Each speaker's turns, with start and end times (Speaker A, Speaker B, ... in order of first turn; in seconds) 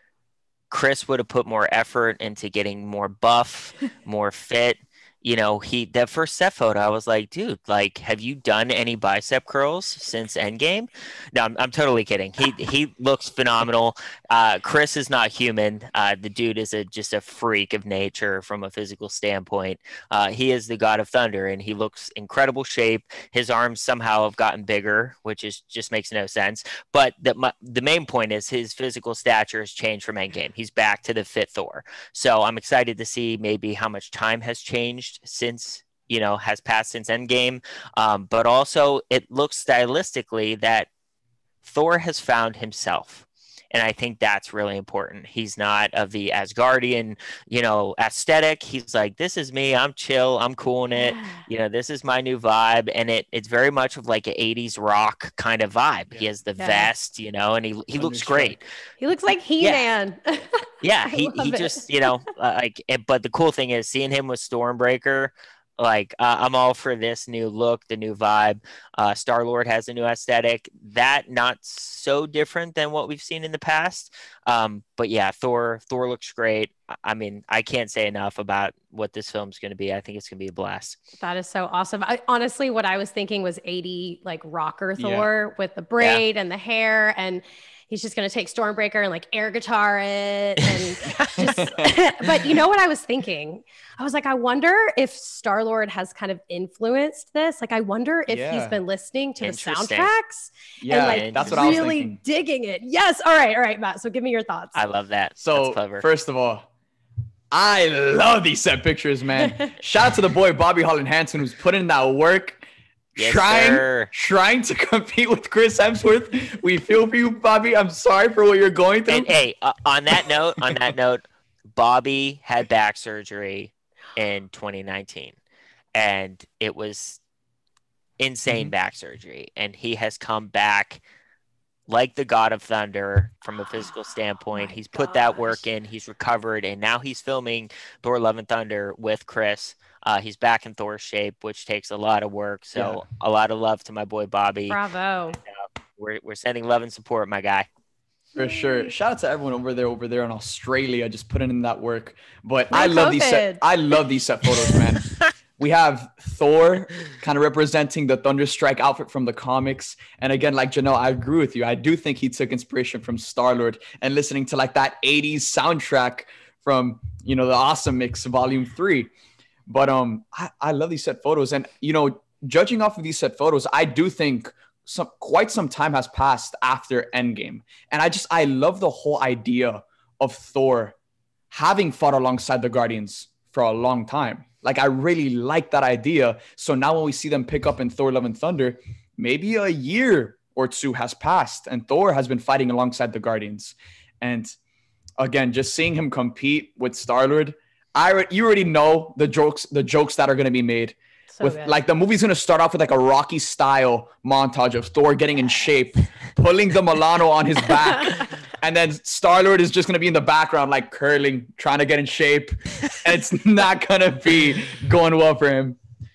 Speaker A: 0.7-40.9, 41.6-58.6, 60.8-81.0, 99.4-100.1, 101.0-101.8, 104.7-106.0, 113.2-114.1, 119.1-121.2, 121.7-125.3, 125.9-127.2, 128.2-131.0, 131.9-144.8, 145.5-147.7
Speaker B: 51.0-51.4, 56.6-56.9, 59.0-61.9, 81.2-104.8, 134.5-135.6, 144.7-145.4, 148.4-148.8, 152.7-153.6, 201.3-201.8
Speaker C: 58.0-58.5, 85.0-85.3, 91.4-91.9, 98.3-98.8, 100.8-102.2, 105.4-106.7, 107.5-112.6, 113.1-119.3, 128.5-128.7, 142.7-143.0, 148.3-169.1, 169.7-180.9, 181.5-194.5, 195.2-215.8